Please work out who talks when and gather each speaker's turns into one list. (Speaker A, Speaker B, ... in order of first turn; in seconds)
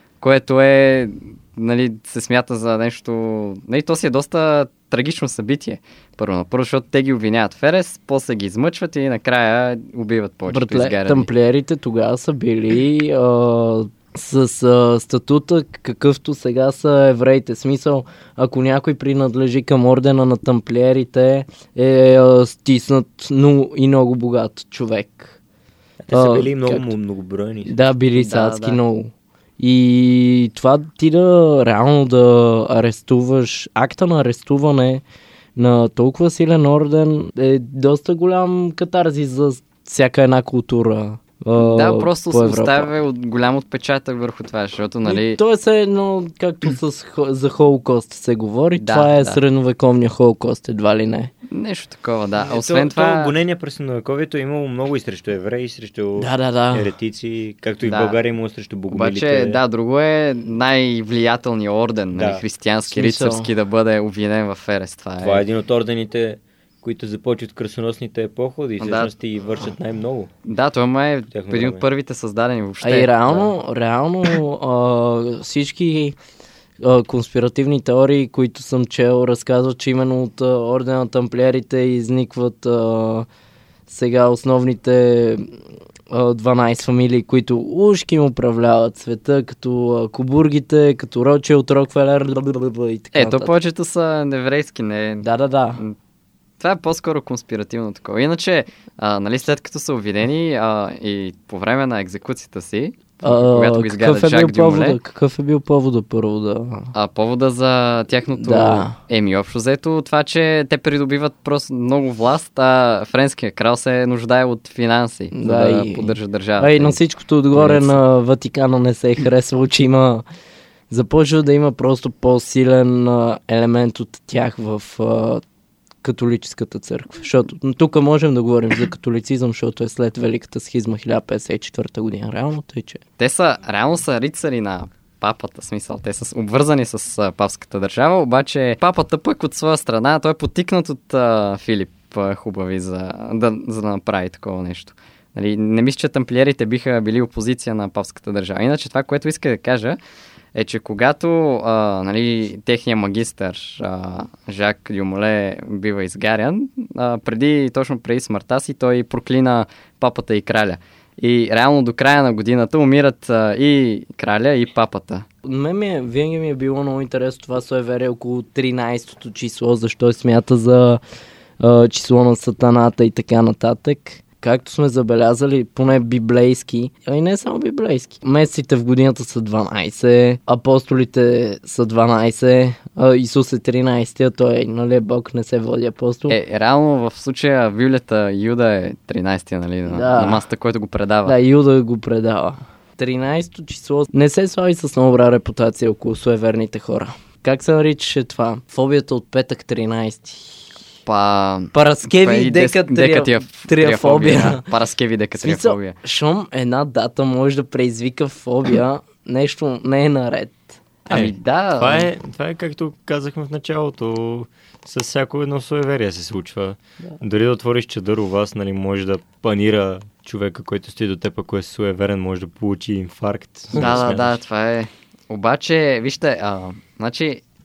Speaker A: 0.2-11.3, 28.2-28.8, 41.6-45.4, 48.8-49.4, 51.5-53.3, 57.9-58.2, 58.9-65.4, 68.8-69.1, 70.5-73.5, 93.2-95.3, 96.6-105.0, 106.9-117.0, 117.5-118.0, 133.2-150.0, 150.6-165.3, 186.3-191.4, 201.1-206.0, 211.1-212.1, 223.8-227.4
Speaker B: 10.5-25.4, 26.1-26.9, 27.7-35.0, 35.6-42.9, 45.0-51.3, 56.2-56.9, 62.9-63.5, 72.8-76.2, 76.8-83.3, 83.9-85.6, 86.1-93.5, 95.2-95.8, 103.2-106.9, 108.4-109.0, 115.3-120.2, 120.9-125.4, 126.0-133.0, 165.4-171.0, 171.6-186.4, 189.9-190.4, 191.3-200.7, 201.7-204.7, 205.4-210.8
Speaker C: 26.0-27.7, 52.5-59.6, 62.1-62.4, 65.2-70.3, 71.3-71.8, 211.1-224.4